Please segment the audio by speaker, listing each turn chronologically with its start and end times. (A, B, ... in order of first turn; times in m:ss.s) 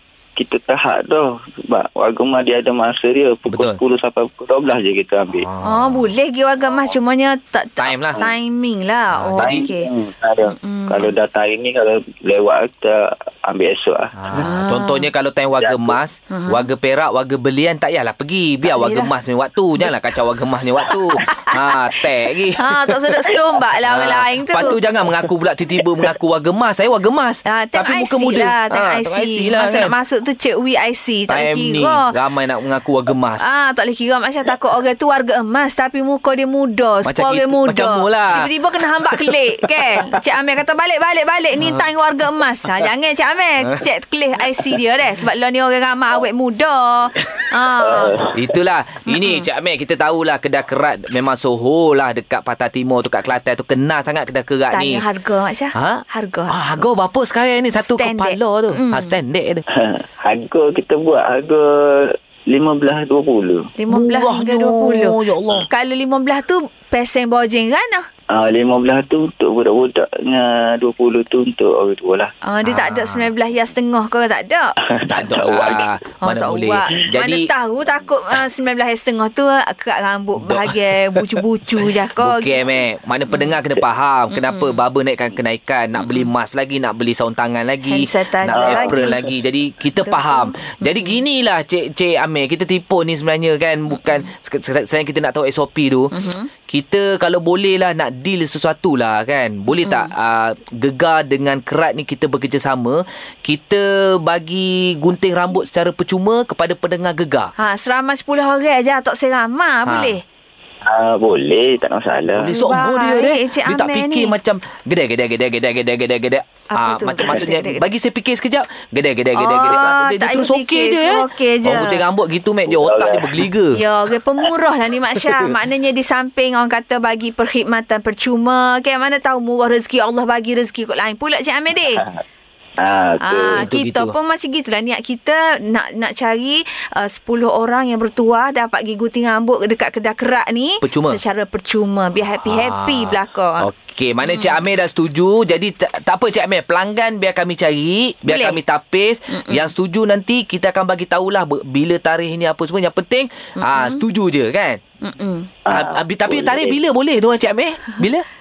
0:00.4-0:05.4 A
0:03.5-0:03.8 B
0:05.3-0:06.1 B
0:05.6-0:09.9 C
0:07.8-0:08.3 B
0:09.1-0:09.6 B
0:09.4-0:14.1 A
0:10.4-0:11.1 C
0:14.2-0:22.9 B
0:14.3-0:15.1 C
0:15.6-0:16.0 A
0:16.3-0:16.6 C
0:18.6-0:19.1 C
0:21.3-0:21.6 C
0:22.6-0:24.8 C
0:23.8-0:29.9 B
0:27.5-0:32.0 C
0:31.3-0:33.4 B
0:33.4-0:48.2 C
0:37.0-0:38.5 B
0:39.1-0:39.4 B
0:41.6-0:41.8 B
0:47.8-0:48.3 A
0:48.3-0:55.0 B
0:49.1-0:49.5 C
0:54.7-0:56.9 C
0:55.7-0:59.6 B
0:57.8-0:59.1 C
0:59.8-1:03.7 A
1:03.8-1:05.2 C
1:03.9-1:05.6 B
1:05.7-1:08.0 C
1:08.3-1:12.3 A
1:12.4-1:14.7 C
1:12.6-1:13.3 B
1:14.9-1:15.8 A
1:15.0-1:17.5 B
1:16.2-1:22.6 C
1:20.4-1:21.4 B
1:22.2-1:36.1 B
1:24.3-1:24.8 C
1:26.0-1:26.3 C
1:27.9-1:29.2 C
1:28.5-1:29.1 A
1:30.0-1:31.2 C
1:33.9-1:34.2 C
1:36.1-1:36.5 C
1:36.7-1:47.5 B
1:39.7-1:40.1 C
1:47.6-1:50.2 C
1:49.8-1:50.2 B
1:50.8-1:52.5 A
1:52.3-2:03.8 B
1:52.4-1:54.3 C
1:56.7-1:57.8 C
1:59.3-2:02.0 C
2:02.6-2:03.5 A
2:03.7-2:12.0 C
2:12.8-2:13.6 A
2:13.2-2:23.7 C
2:13.6-2:14.1 B
2:20.8-2:21.2 B
2:22.4-2:34.8 B
2:24.2-2:24.6 C
2:28.3-2:28.6 C
2:29.3-2:29.7 C
2:33.6-2:34.0 C
2:35.0-2:35.5 C
2:35.7-2:36.8 A
2:35.7-2:38.2 B